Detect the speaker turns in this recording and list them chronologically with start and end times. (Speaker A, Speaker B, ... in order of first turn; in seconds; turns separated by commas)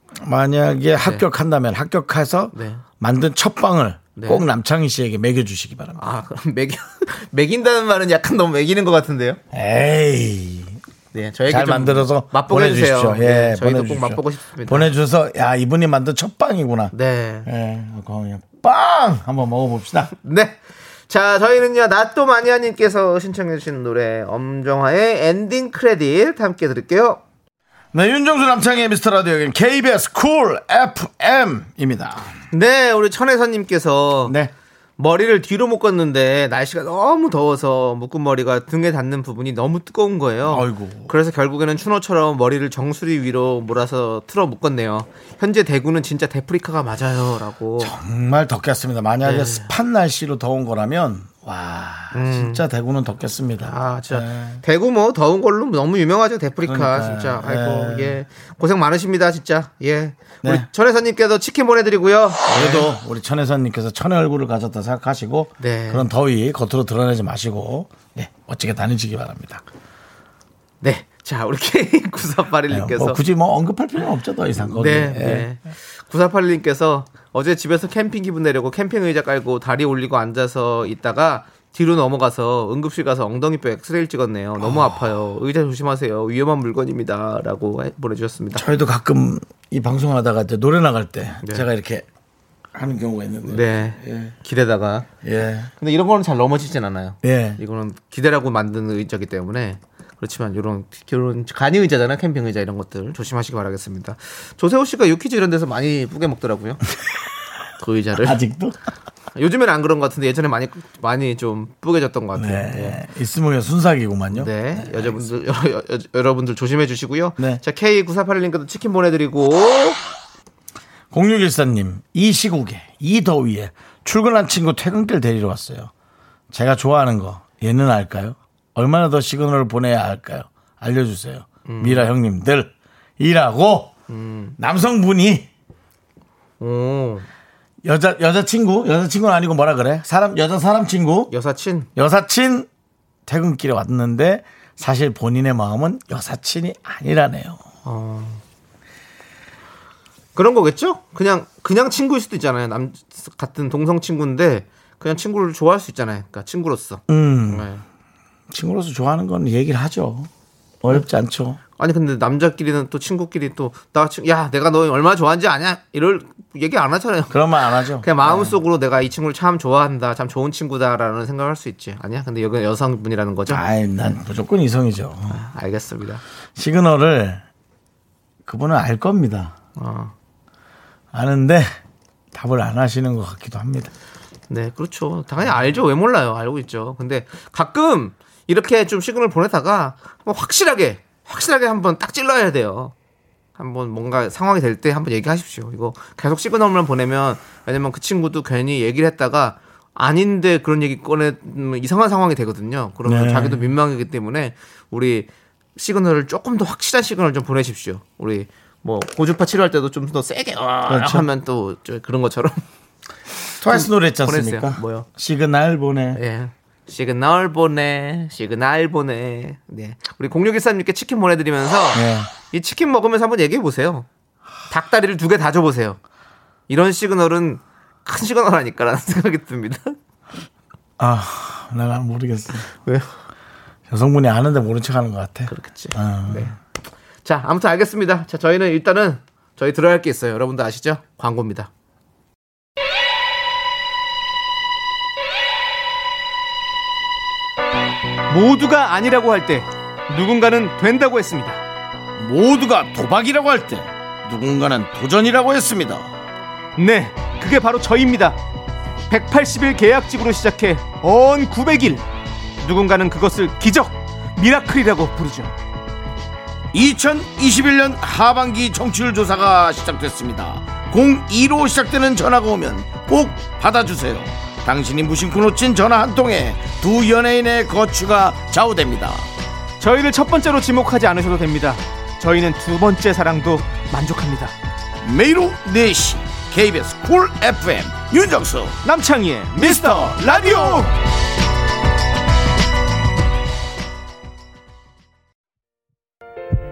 Speaker A: 0.2-6.0, Speaker B: 1.0-1.3, Speaker B: 2.5-2.8, Speaker B: 4.2-4.5, Speaker B: 6.0-9.4, Speaker A: 9.5-10.8, Speaker B: 11.1-14.9, Speaker A: 11.5-16.9, Speaker B: 16.9-17.5, Speaker A: 17.4-20.1, Speaker B: 20.2-27.2, Speaker A: 27.9-32.4, Speaker B: 32.5-34.4, Speaker A: 34.3-34.5, Speaker B: 35.0-47.9, Speaker A: 40.5-41.1, Speaker A: 47.8-54.6, Speaker B: 49.2-49.7, Speaker B: 52.1-52.6, Speaker B: 53.7-62.9, Speaker A: 56.6-58.2, Speaker A: 62.5-69.6, Speaker B: 65.6-66.1, Speaker B: 70.8-73.2, Speaker A: 72.7-75.5, Speaker B: 74.7-88.7, Speaker A: 84.6-85.0, Speaker A: 88.5-92.1, Speaker A: 92.7-94.3, Speaker B: 93.4-95.1, Speaker A: 95.2-95.7, Speaker B: 95.8-106.8, Speaker A: 97.2-97.6, Speaker B: 107.8-108.4, Speaker A: 108.2-108.8, Speaker B: 109.3-113.0, Speaker A: 112.4-115.2, Speaker B: 114.3-120.0, Speaker A: 121.1-125.9, Speaker A: 126.5-133.9, Speaker B: 131.7-132.1, Speaker B: 134.1-134.6, Speaker A: 134.6-135.5, Speaker B: 136.6-137.3, Speaker A: 137.8-141.3, Speaker B: 141.3-141.9, Speaker A: 142.0-142.7, Speaker A: 143.3-147.6, Speaker B: 147.8-148.4, Speaker B: 150.4-157.8, Speaker A: 157.1-157.7, Speaker A: 158.5-160.3, Speaker A: 160.8-161.6, Speaker B: 161.8-173.6, Speaker A: 167.3-168.6, Speaker A: 173.5-175.4, Speaker B: 175.3-176.2, Speaker A: 176.6-177.4, Speaker A: 178.4-179.5, Speaker B: 179.8-180.1, Speaker A: 181.1-181.7, Speaker A: 182.3-183.9, Speaker B: 184.5-192.9, Speaker B: 193.6-212.6, Speaker A: 203.1-203.7, Speaker A: 210.9-211.2, Speaker A: 213.6-216.2, Speaker B: 213.7-215.1, Speaker B: 216.2-224.1, Speaker A: 221.9-222.3, Speaker B: 224.7-226.0, Speaker B: 226.7-230.0, Speaker A: 231.0-232.7, Speaker A: 233.9-236.5, Speaker B: 235.5-236.6, Speaker B: 237.2-241.7, Speaker B: 248.3-251.6, Speaker A: 252.2-256.1, Speaker B: 256.8-258.4, Speaker B: 259.1-262.0, Speaker B: 262.6-265.5, Speaker A: 266.7-279.3, Speaker B: 279.8-284.5, Speaker A: 285.0-288.8, Speaker B: 288.8-290.9, Speaker A: 289.6-290.8